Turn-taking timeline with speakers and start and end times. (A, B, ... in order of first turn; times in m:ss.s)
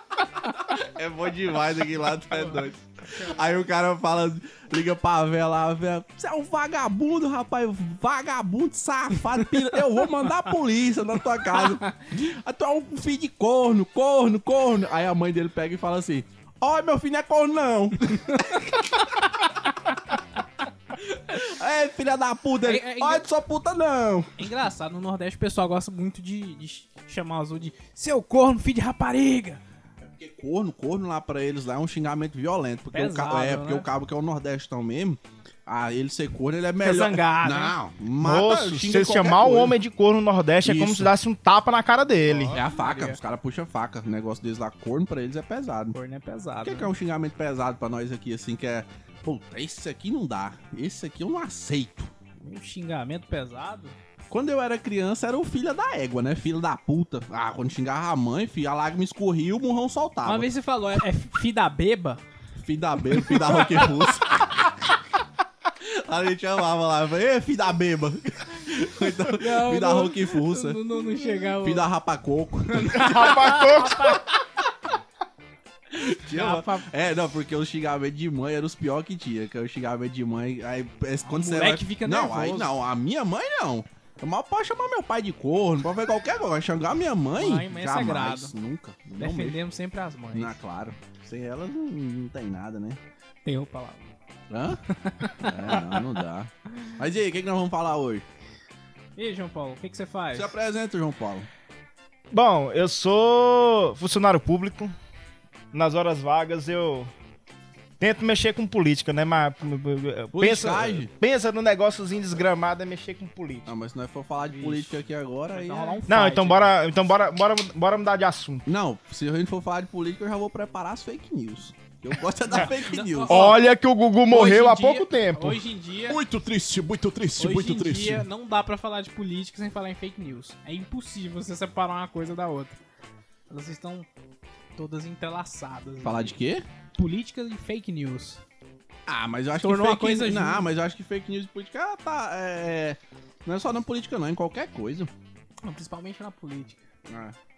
0:00.4-0:19.0 A
0:21.0-0:24.4 A
0:22.6-0:23.3 B
0:24.4-0:29.6 B
0:30.0-0:39.8 A
0:32.9-0:33.9 B
0:36.8-0:37.7 B
0:38.2-0:42.6 C
0:40.6-0:41.1 A
0:42.2-0:43.2 B
0:42.5-0:46.0 A
0:45.9-0:46.9 B
0:46.6-0:52.1 A
0:52.4-0:54.0 B
0:54.3-1:00.5 A
1:00.2-1:02.2 B
1:02.6-1:04.7 A
1:03.1-1:04.2 B
1:05.8-1:10.8 A
1:09.2-1:11.9 B
1:11.6-1:13.6 A
1:12.7-1:14.3 B
1:13.0-1:14.2 C
1:15.9-1:29.6 A
1:16.3-1:16.9 B
1:21.2-1:22.8 B
1:27.4-1:28.5 B
1:29.2-1:30.6 B
1:30.3-1:33.0 A
1:33.4-1:34.0 B
1:34.5-1:38.2 A
1:34.9-1:36.1 B
1:39.2-1:40.5 B
1:40.3-1:41.5 A
1:42.3-1:44.9 C
1:45.7-1:47.1 C
1:48.0-1:53.7 C
1:50.3-1:51.1 A
1:53.6-1:56.0 A
1:54.5-1:56.7 B
1:56.1-1:58.6 C
1:58.6-2:03.5 A
2:02.5-2:03.6 B
2:03.3-2:05.6 C
2:04.3-2:06.2 B
2:06.1-2:08.2 A
2:07.4-2:12.8 B
2:13.5-2:14.1 B
2:14.8-2:16.3 B
2:16.0-2:16.6 A
2:17.0-2:18.4 B
2:19.1-2:25.1 A
2:19.6-2:20.7 B
2:25.6-2:26.8 B
2:27.1-2:27.4 A